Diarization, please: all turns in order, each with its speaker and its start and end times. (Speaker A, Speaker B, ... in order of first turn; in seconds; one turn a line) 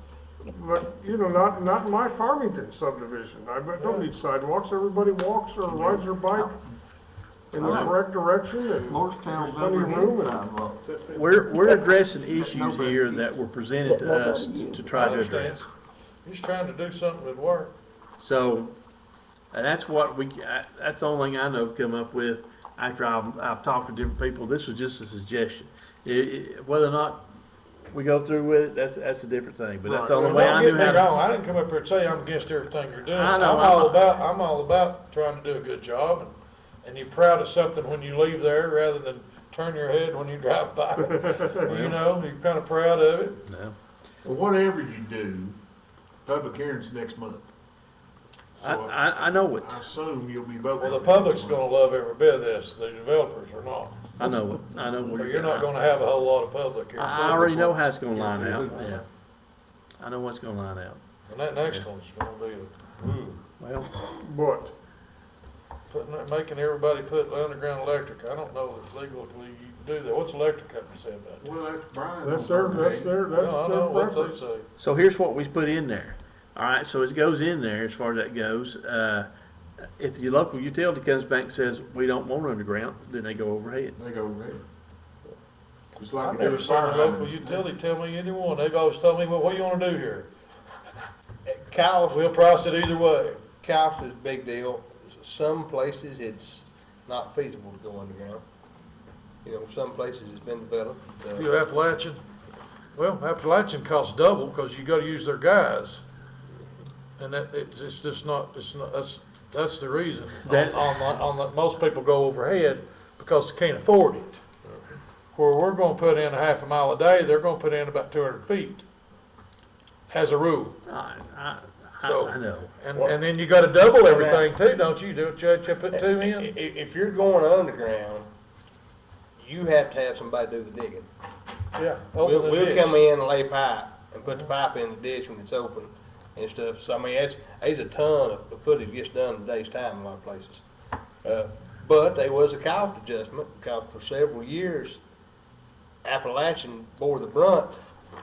Speaker A: 0.5-6.5
Speaker B: 3.8-4.1
Speaker A: 7.5-10.5
Speaker C: 7.6-7.9
Speaker D: 7.6-7.9
Speaker C: 8.9-13.2
Speaker D: 11.1-15.7
Speaker C: 13.9-15.2
Speaker B: 14.9-15.7
Speaker B: 16.2-17.7
Speaker D: 18.2-18.7
Speaker D: 19.5-27.3
Speaker D: 27.9-31.1
Speaker E: 29.9-30.6
Speaker C: 29.9-30.3
Speaker B: 30.2-43.5
Speaker D: 33.1-34.1
Speaker D: 41.6-42.0
Speaker D: 43.5-43.8
Speaker F: 44.2-45.6
Speaker F: 46.2-47.5
Speaker F: 48.6-49.0
Speaker D: 48.6-49.8
Speaker F: 49.5-51.6
Speaker B: 50.8-54.0
Speaker D: 54.2-55.7
Speaker B: 55.1-57.7
Speaker D: 57.0-59.0
Speaker F: 57.4-59.0
Speaker D: 60.0-61.0
Speaker B: 61.3-63.4
Speaker D: 63.6-63.9
Speaker A: 64.2-64.7
Speaker B: 65.9-71.5
Speaker F: 71.4-73.2
Speaker A: 72.2-74.4
Speaker B: 73.3-74.7
Speaker D: 74.8-79.3
Speaker D: 80.0-84.0
Speaker F: 84.0-84.6
Speaker F: 86.0-87.6
Speaker B: 86.2-90.3
Speaker E: 91.5-92.3
Speaker B: 92.1-93.4
Speaker E: 93.6-98.4
Speaker E: 99.4-101.5
Speaker B: 101.4-102.2
Speaker B: 103.0-106.0
Speaker B: 107.2-114.5
Speaker D: 110.5-111.2
Speaker B: 115.3-118.8
Speaker B: 120.1-120.8
Speaker D: 120.9-122.7
Speaker B: 122.0-126.5
Speaker E: 124.0-124.5
Speaker E: 125.9-128.3
Speaker E: 129.4-131.1
Speaker B: 131.8-133.0
Speaker E: 132.2-140.6
Speaker E: 141.2-145.0
Speaker E: 146.0-147.8